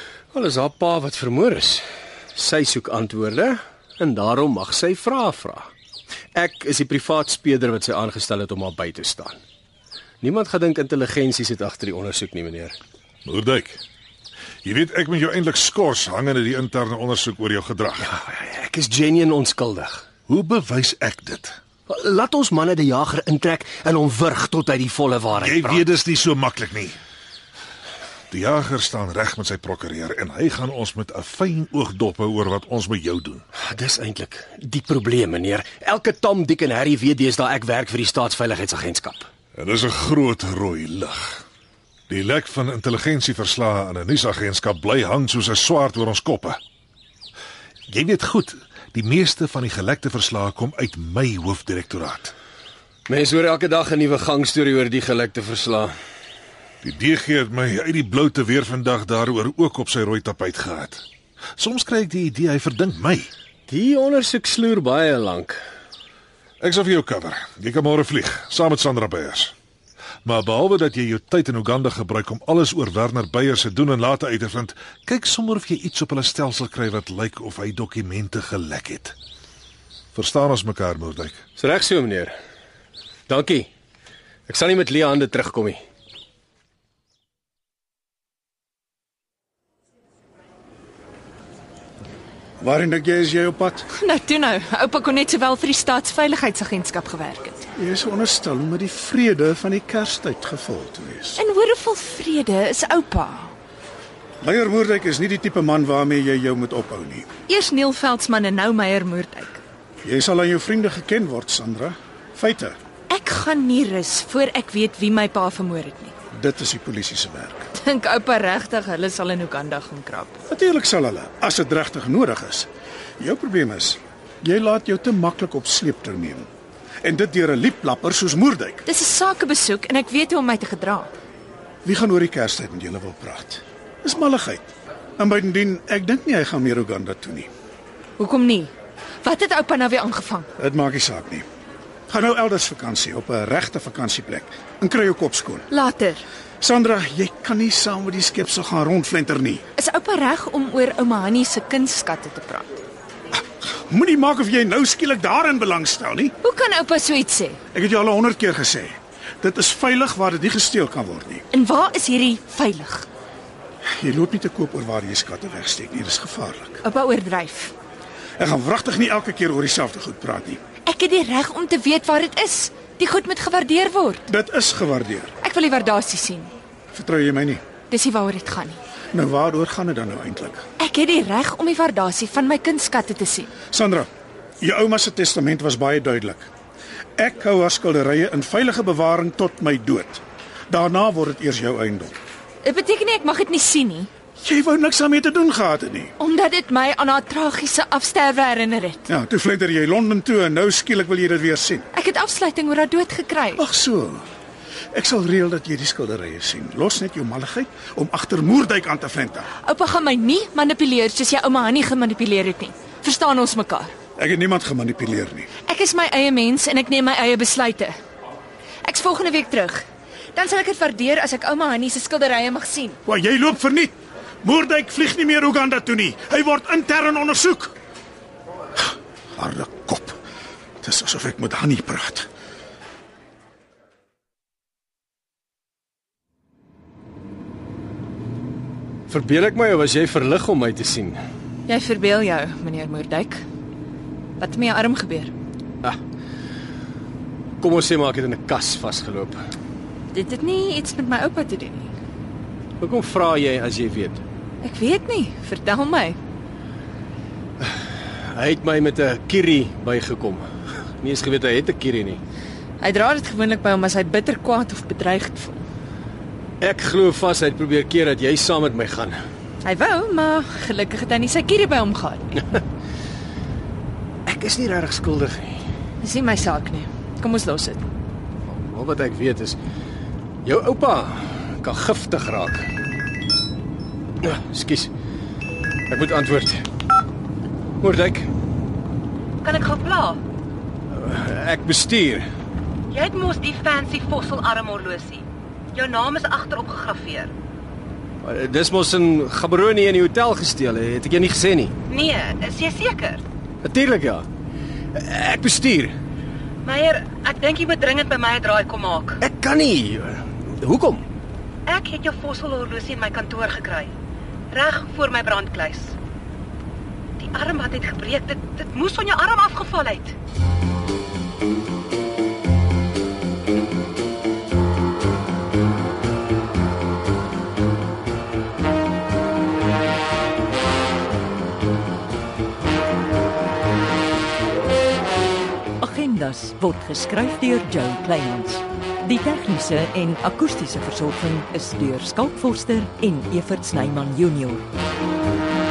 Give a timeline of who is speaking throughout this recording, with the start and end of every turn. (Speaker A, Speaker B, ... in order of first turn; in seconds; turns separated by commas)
Speaker A: 0.3-5.7, Speaker A: 6.3-9.4, Speaker A: 10.2-12.8, Speaker B: 13.2-13.8, Speaker B: 14.6-18.1, Speaker A: 18.0-20.1, Speaker B: 20.3-21.6, Speaker A: 21.9-25.8, Speaker B: 25.4-27.0, Speaker B: 28.3-33.4, Speaker A: 33.6-39.3, Speaker B: 39.5-41.4, Speaker B: 42.1-46.6, Speaker B: 47.9-52.3, Speaker A: 53.1-55.9, Speaker B: 56.8-61.0, Speaker B: 61.6-63.3, Speaker A: 63.7-65.6, Speaker B: 66.6-69.5, Speaker B: 70.2-79.2, Speaker B: 80.2-81.4, Speaker A: 81.6-82.3, Speaker A: 83.3-83.7, Speaker A: 84.5-85.8, Speaker C: 92.6-93.8, Speaker D: 93.9-97.7, Speaker C: 97.8-101.4, Speaker D: 101.4-103.5, Speaker C: 104.4-107.3, Speaker D: 107.5-109.6, Speaker C: 110.0-112.8, Speaker D: 113.1-116.1, Speaker C: 116.3-117.7, Speaker D: 117.8-120.4, Speaker C: 120.5-122.7, Speaker C: 123.2-126.5, Speaker C: 127.0-128.8, Speaker D: 128.9-131.1, Speaker C: 131.8-137.5, Speaker D: 138.2-138.7, Speaker D: 139.2-140.5, Speaker C: 140.6-141.4, Speaker C: 142.1-145.7, Speaker D: 145.7-146.2, Speaker C: 146.6-149.6, Speaker D: 149.8-152.7, Speaker C: 153.3-156.3, Speaker D: 156.4-157.6, Speaker C: 157.7-161.4, Speaker D: 161.5-163.1, Speaker C: 163.9-166.8, Speaker D: 166.8-167.7, Speaker C: 168.4-170.6, Speaker D: 170.8-174.3, Speaker C: 174.3-175.3, Speaker D: 175.4-176.5, Speaker C: 176.9-177.6, Speaker D: 177.9-178.8, Speaker C: 179.1-180.6, Speaker D: 180.8-183.5, Speaker C: 183.7-184.1, Speaker C: 184.6-186.5, Speaker C: 187.2-192.2, Speaker D: 192.6-194.1, Speaker C: 194.4-196.1, Speaker D: 196.2-199.1, Speaker C: 199.1-201.9, Speaker D: 201.9-203.6, Speaker C: 203.6-204.2, Speaker C: 204.9-209.5, Speaker D: 209.6-213.9, Speaker C: 214.2-215.5, Speaker D: 215.7-217.9, Speaker D: 218.8-219.8, Speaker D: 220.3-223.0, Speaker C: 223.1-227.8, Speaker C: 229.4-230.2, Speaker C: 230.8-232.3, Speaker A: 239.1-241.2, Speaker D: 241.7-243.4, Speaker D: 244.4-245.3, Speaker A: 247.6-249.4, Speaker D: 250.1-251.9, Speaker A: 252.8-254.2, Speaker D: 254.6-256.2, Speaker A: 258.2-260.5, Speaker A: 261.0-262.2, Speaker D: 262.8-265.6, Speaker A: 266.6-269.2, Speaker D: 269.6-272.5, Speaker A: 274.3-275.6, Speaker D: 276.0-277.8, Speaker A: 278.5-279.6, Speaker A: 280.4-282.6, Speaker A: 284.2-284.9, Speaker A: 285.9-286.6, Speaker A: 287.8-288.3, Speaker E: 289.4-290.2, Speaker A: 290.9-292.2, Speaker E: 292.9-297.3, Speaker A: 298.2-301.7, Speaker E: 301.9-303.2, Speaker A: 303.6-304.3, Speaker A: 304.9-305.9, Speaker E: 306.6-309.2, Speaker A: 309.2-311.0, Speaker E: 311.7-313.9, Speaker E: 314.5-316.0, Speaker E: 317.2-320.1, Speaker F: 335.8-344.6